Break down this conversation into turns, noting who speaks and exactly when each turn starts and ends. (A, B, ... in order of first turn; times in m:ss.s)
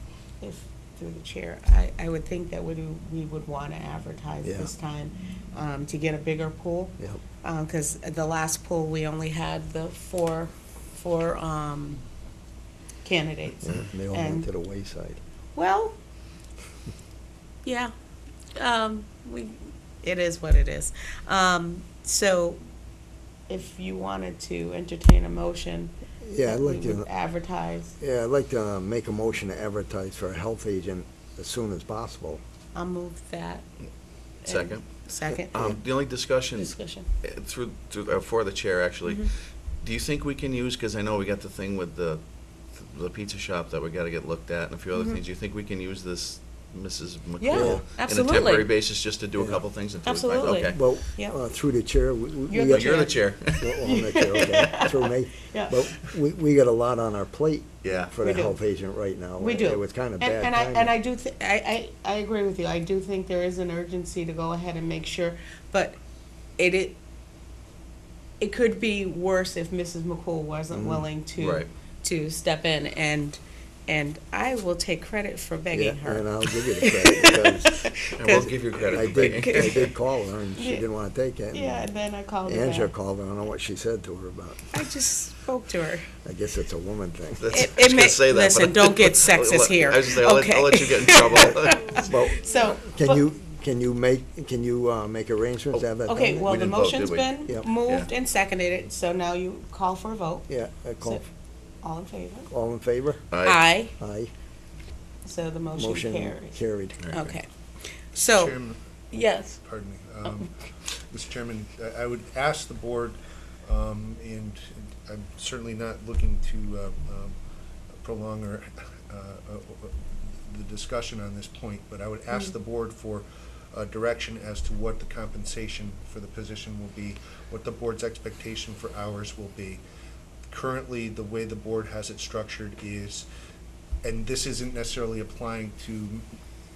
0:00.4-0:12.0 A
0:04.4-0:04.7 B
0:13.0-0:14.5 A
0:13.6-0:15.2 B
0:15.6-0:16.0 A
0:17.6-0:17.9 A
0:18.6-0:22.6 A
0:23.5-0:27.9 A
0:26.2-0:27.1 B
0:28.0-0:32.4 B
0:32.7-0:33.6 A
0:34.4-0:35.6 A
0:34.5-0:34.9 C
0:35.5-0:50.8 C
0:36.6-0:37.1 A
0:39.1-0:39.3 A
0:44.9-0:45.2 A
0:47.4-0:48.7 A
0:47.5-0:47.8 B
0:49.4-0:49.6 B
0:50.0-0:51.4 A
0:50.6-1:00.9 B
0:52.5-0:53.2 A
0:52.6-0:53.8 C
0:53.8-0:55.9 A
0:57.8-0:58.1 C
0:58.2-0:58.6 A
0:59.4-1:06.0 A
1:06.6-1:07.0 A
1:08.4-1:19.9 A
1:10.7-1:11.1 B
1:11.4-1:11.7 C
1:15.7-1:21.9 B
1:18.2-1:19.8 C
1:20.6-1:20.9 A
1:21.5-1:22.9 A
1:22.5-1:24.7 B
1:24.7-1:26.1 A
1:26.2-1:27.6 B
1:27.4-1:32.1 C
1:27.5-1:33.2 A
1:32.0-1:36.6 B
1:36.1-1:40.5 A
1:36.4-1:38.1 C
1:40.5-1:41.2 B
1:41.8-1:42.5 A
1:42.5-1:43.3 B
1:43.3-1:43.6 C
1:43.4-1:43.9 A
1:44.0-1:44.3 B
1:45.2-1:46.6 A
1:45.8-1:47.1 B
1:47.0-1:47.4 C
1:47.1-1:47.5 A
1:48.1-1:48.6 A
1:48.3-1:57.4 D
1:49.1-1:49.6 A
1:58.0-2:09.8 D
2:10.5-2:13.3 D
2:14.0-2:16.3 D